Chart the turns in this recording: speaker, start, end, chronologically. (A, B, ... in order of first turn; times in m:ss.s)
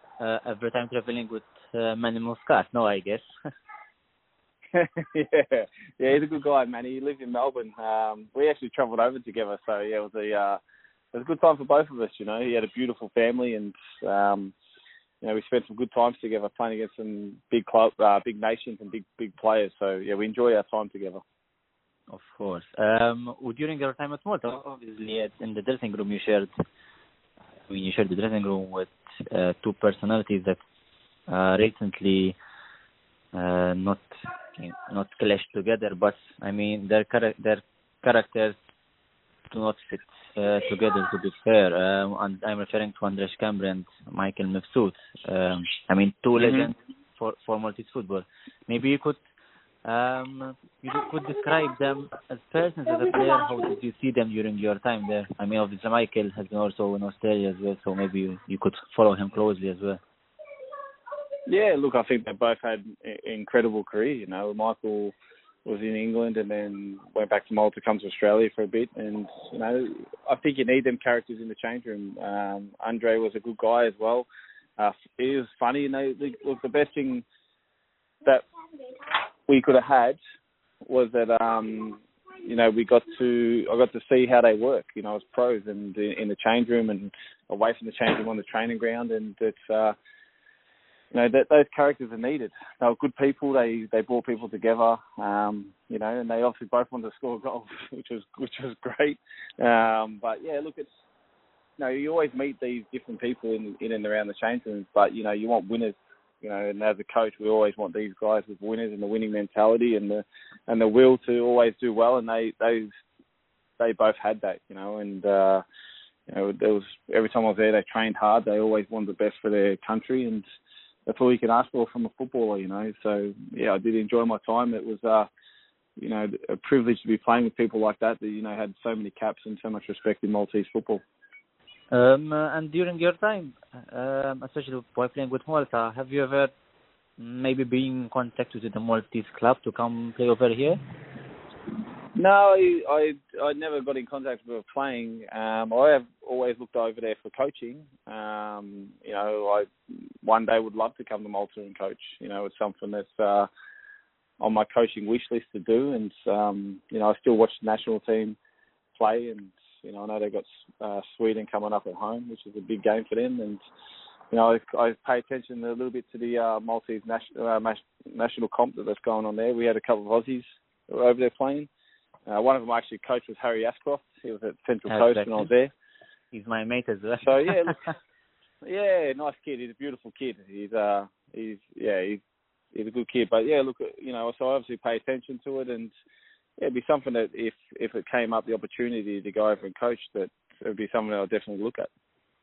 0:00.2-0:03.2 A
0:04.7-0:10.6 B
0:11.1-0:14.5 B
0:15.2-0:21.2 B
0:22.1-0:26.5 A
0:27.7-0:30.6 A
0:31.3-0:32.4 A
0:33.3-0:38.6 A
0:39.5-0:49.2 A
0:46.4-0:46.7 B
0:49.8-1:00.0 A
1:01.5-1:05.1 B
1:05.6-1:14.3 B
1:14.8-1:17.2 B
1:19.5-1:20.2 B
1:20.8-1:30.0 B
1:31.1-1:40.9 B
1:41.8-1:52.9 B
1:53.8-1:55.6 B
1:56.3-2:00.4 B
2:01.1-2:05.3 B
2:06.0-2:11.0 B
2:11.9-2:16.5 A
2:17.2-2:20.8 A
2:22.2-2:29.7 B
2:30.2-2:33.5 B
2:34.4-2:38.4 B
2:39.0-2:43.6 B
2:44.3-2:51.7 B
2:52.3-2:55.7 B
2:54.9-2:55.5 A
2:56.3-2:57.9 A
2:57.2-2:57.8 B
2:58.6-3:02.2 B
3:02.7-3:05.9 B
3:06.6-3:11.9 B